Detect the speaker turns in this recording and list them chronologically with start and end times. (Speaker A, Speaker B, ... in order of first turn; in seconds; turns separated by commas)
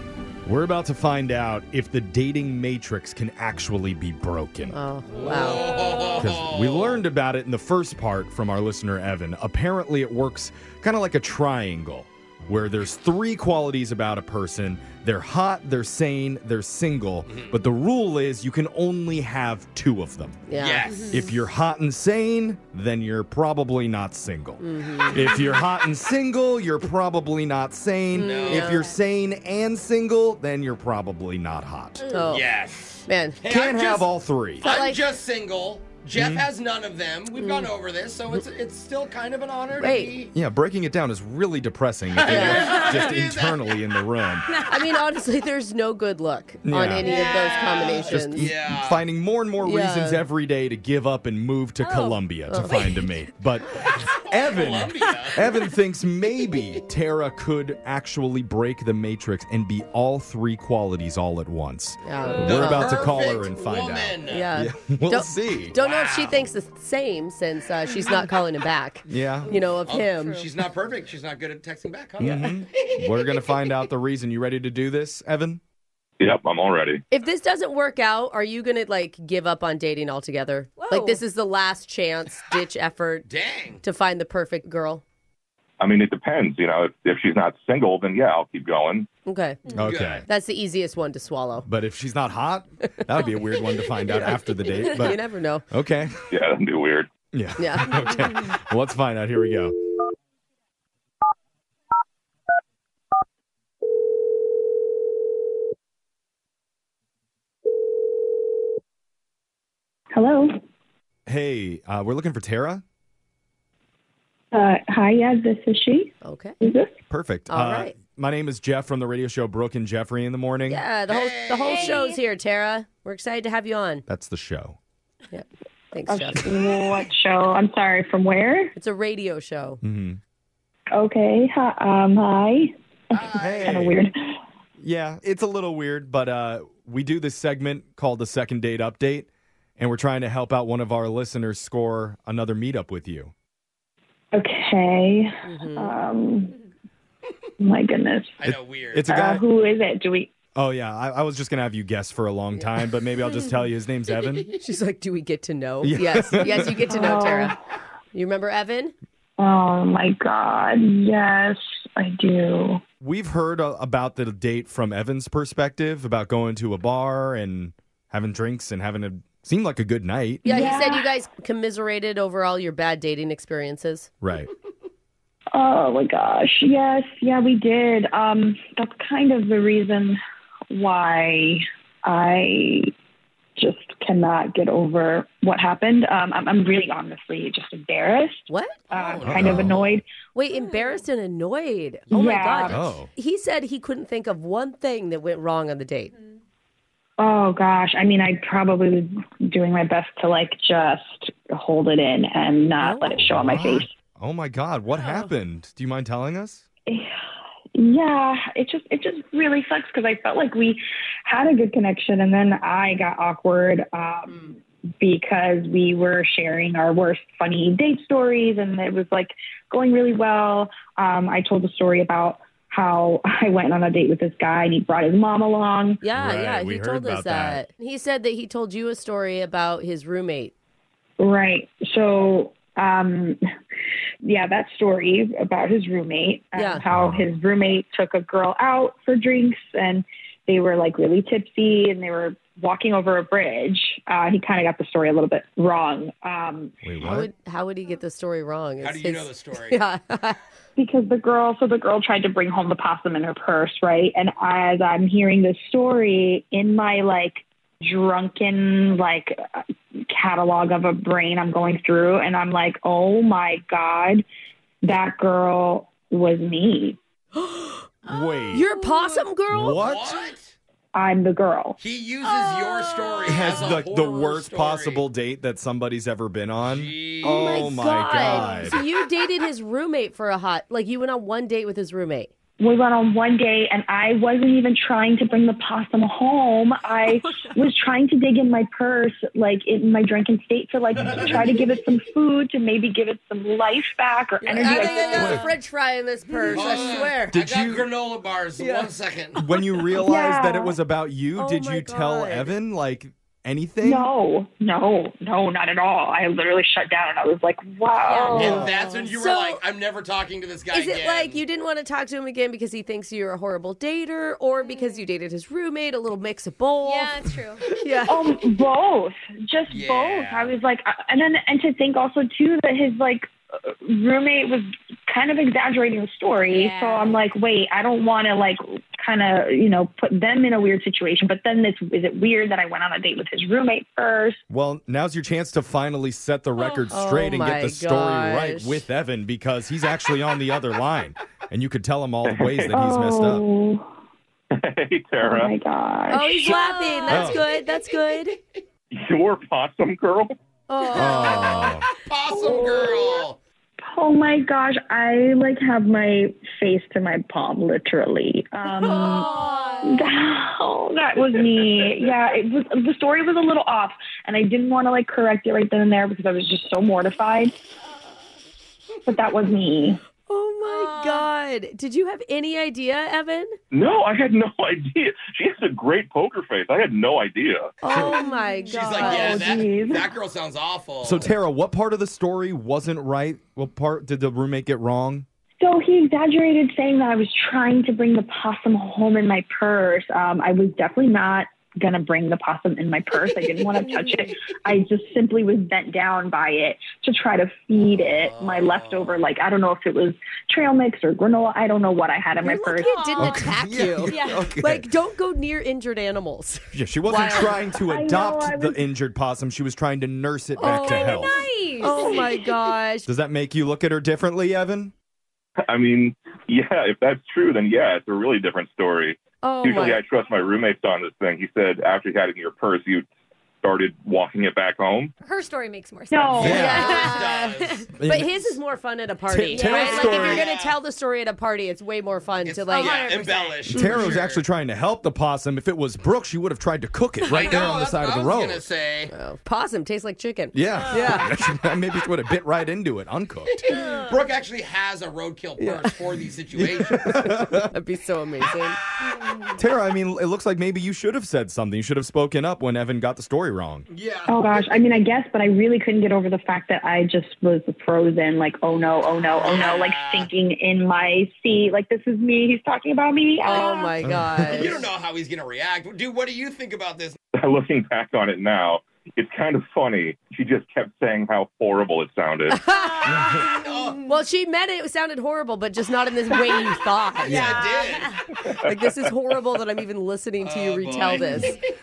Speaker A: 0.4-4.7, Speaker B: 4.7-5.8, Speaker C: 5.2-7.0, Speaker D: 5.8-6.1, Speaker A: 6.2-20.5, Speaker C: 17.3-17.5, Speaker B: 20.5-21.1, Speaker C: 20.5-21.1, Speaker D: 20.8-21.2, Speaker A: 21.1-32.1, Speaker B: 24.6-25.3, Speaker B: 28.1-28.8, Speaker C: 28.1-28.7, Speaker D: 28.6-28.9, Speaker B: 32.1-32.5, Speaker C: 32.2-34.1, Speaker B: 33.1-33.4, Speaker A: 33.5-34.7, Speaker C: 34.6-40.3, Speaker B: 34.6-35.0, Speaker A: 36.1-36.5, Speaker B: 37.4-37.7, Speaker B: 39.8-40.2, Speaker A: 40.3-44.5, Speaker C: 42.1-43.8, Speaker B: 42.2-42.8, Speaker D: 42.6-43.1, Speaker D: 44.5-45.0, Speaker B: 44.7-48.5, Speaker A: 46.6-47.2, Speaker C: 47.0-49.0, Speaker D: 47.0-47.9, Speaker A: 48.0-65.8, Speaker B: 49.6-50.2, Speaker D: 51.8-52.9, Speaker B: 52.5-52.9, Speaker C: 54.1-55.4, Speaker B: 62.0-63.1, Speaker C: 62.4-64.5, Speaker B: 64.3-70.5, Speaker C: 65.8-66.5, Speaker A: 69.1-69.5, Speaker C: 69.8-73.0, Speaker D: 70.0-70.5, Speaker A: 72.2-75.6, Speaker E: 76.2-77.0, Speaker B: 77.1-83.3, Speaker D: 80.8-81.2, Speaker C: 83.2-83.8, Speaker B: 83.8-85.0, Speaker E: 85.8-89.1, Speaker B: 89.2-91.7, Speaker A: 89.7-90.2, Speaker C: 89.8-90.2, Speaker A: 91.7-96.2, Speaker B: 94.1-95.7, Speaker E: 96.3-97.1, Speaker A: 97.3-99.7, Speaker B: 97.6-98.0, Speaker F: 110.1-110.6, Speaker A: 111.2-112.8, Speaker F: 114.5-116.9, Speaker B: 116.2-116.5, Speaker A: 117.1-120.8, Speaker B: 117.5-117.9, Speaker B: 120.7-124.0, Speaker C: 121.1-122.0, Speaker D: 121.6-122.2, Speaker A: 124.1-124.8, Speaker B: 125.3-126.7, Speaker F: 126.1-128.7, Speaker B: 128.8-129.8, Speaker A: 129.8-130.2, Speaker F: 130.9-134.1, Speaker C: 133.1-133.9, Speaker A: 133.4-134.0, Speaker A: 134.8-143.3, Speaker F: 144.3-146.6, Speaker B: 145.4-145.9, Speaker F: 147.6-148.4, Speaker C: 148.4-149.1, Speaker A: 148.4-149.4, Speaker F: 149.1-150.3, Speaker A: 150.5-154.5, Speaker B: 154.5-157.5, Speaker A: 155.8-156.8, Speaker F: 156.9-157.6, Speaker B: 158.1-158.9, Speaker F: 159.4-162.8, Speaker A: 163.0-170.7, Speaker F: 170.4-171.1, Speaker B: 170.4-174.1, Speaker A: 174.2-174.5, Speaker F: 175.5-180.2, Speaker F: 180.7-182.9, Speaker F: 183.6-190.0, Speaker B: 188.5-188.8, Speaker C: 188.9-189.9, Speaker A: 189.2-190.0, Speaker B: 190.3-196.1, Speaker D: 190.5-191.0, Speaker F: 192.1-192.8, Speaker A: 192.7-193.1, Speaker D: 196.1-196.4, Speaker F: 197.2-203.9, Speaker B: 202.8-203.3, Speaker A: 203.1-206.6, Speaker D: 204.9-205.3, Speaker F: 207.7-226.0, Speaker B: 226.0-230.5, Speaker A: 226.1-227.6, Speaker F: 231.2-233.4, Speaker F: 234.2-246.7, Speaker B: 236.6-236.8, Speaker A: 236.9-237.2, Speaker A: 246.8-247.3, Speaker B: 247.0-250.4, Speaker C: 248.8-249.8, Speaker F: 250.8-264.2, Speaker F: 264.8-267.0, Speaker B: 267.4-267.9, Speaker A: 268.1-268.7, Speaker B: 268.5-269.8, Speaker D: 268.7-269.2, Speaker A: 269.5-270.1, Speaker C: 269.7-270.5, Speaker F: 270.9-271.8, Speaker C: 271.8-275.0, Speaker D: 272.3-273.2, Speaker A: 273.2-278.8, Speaker C: 276.6-278.3, Speaker B: 277.2-282.3, Speaker F: 282.6-295.4, Speaker B: 294.4-297.3, Speaker D: 294.9-295.3, Speaker A: 295.2-295.4, Speaker C: 296.4-299.4, Speaker A: 297.3-297.9, Speaker B: 298.6-298.9, Speaker A: 299.4-304.1, Speaker F: 300.0-300.8, Speaker B: 301.4-302.5, Speaker F: 303.8-308.6, Speaker D: 308.0-309.0, Speaker B: 308.3-309.6, Speaker C: 308.3-311.4, Speaker B: 310.7-317.1, Speaker D: 314.6-315.0, Speaker D: 316.8-317.6, Speaker B: 317.7-318.4, Speaker F: 318.1-334.4, Speaker C: 319.7-320.5, Speaker D: 326.5-327.2, Speaker A: 334.5-343.4, Speaker D: 336.6-336.9, Speaker B: 336.9-338.8, Speaker E: 342.2-342.7, Speaker F: 342.7-343.9, Speaker E: 344.5-345.5, Speaker F: 345.2-346.5, Speaker B: 346.1-348.4, Speaker D: 346.4-347.4, Speaker A: 347.1-347.4, Speaker E: 348.9-350.3, Speaker B: 350.7-351.7, Speaker A: 350.9-351.8, Speaker C: 351.4-353.4, Speaker F: 352.3-353.2, Speaker F: 353.8-359.3, Speaker D: 358.8-360.1, Speaker F: 359.8-367.5, Speaker F: 369.1-370.0, Speaker B: 370.2-373.6, Speaker D: 370.6-371.3, Speaker E: 373.7-377.7, Speaker B: 377.8-379.6, Speaker D: 378.1-379.2, Speaker C: 378.7-381.3, Speaker F: 379.0-380.1, Speaker A: 381.0-385.2, Speaker F: 385.6-403.0, Speaker D: 393.9-394.2, Speaker C: 398.1-399.2, Speaker B: 402.4-407.6, Speaker D: 402.6-403.5, Speaker A: 403.2-404.9, Speaker D: 404.1-404.4, Speaker A: 406.7-411.3, Speaker F: 407.8-408.8, Speaker B: 410.6-413.1, Speaker D: 410.6-412.2, Speaker A: 413.1-414.9, Speaker E: 415.6-423.1, Speaker B: 419.4-420.0, Speaker E: 423.6-425.1, Speaker D: 425.2-427.8, Speaker F: 426.1-426.6, Speaker A: 426.4-426.9, Speaker B: 426.4-433.2, Speaker C: 426.4-427.9, Speaker A: 428.0-428.6, Speaker A: 429.3-430.4, Speaker D: 429.5-430.4, Speaker C: 430.1-430.8, Speaker C: 432.4-434.4, Speaker D: 432.7-433.8, Speaker A: 433.7-438.6, Speaker C: 437.2-439.1, Speaker B: 439.1-441.3, Speaker A: 440.5-443.7, Speaker C: 443.7-447.1, Speaker B: 445.6-445.9, Speaker A: 446.5-447.7, Speaker B: 447.1-448.8, Speaker A: 449.6-453.9, Speaker C: 453.9-454.6, Speaker F: 454.3-463.9, Speaker C: 459.3-460.3, Speaker B: 463.4-464.9, Speaker A: 464.0-464.7, Speaker C: 464.4-467.2, Speaker E: 467.3-472.6, Speaker B: 472.5-477.8, Speaker D: 473.0-473.9, Speaker C: 473.5-474.0, Speaker C: 477.2-478.2, Speaker A: 477.2-477.6, Speaker D: 477.5-478.1, Speaker B: 478.6-481.6, Speaker C: 480.4-481.6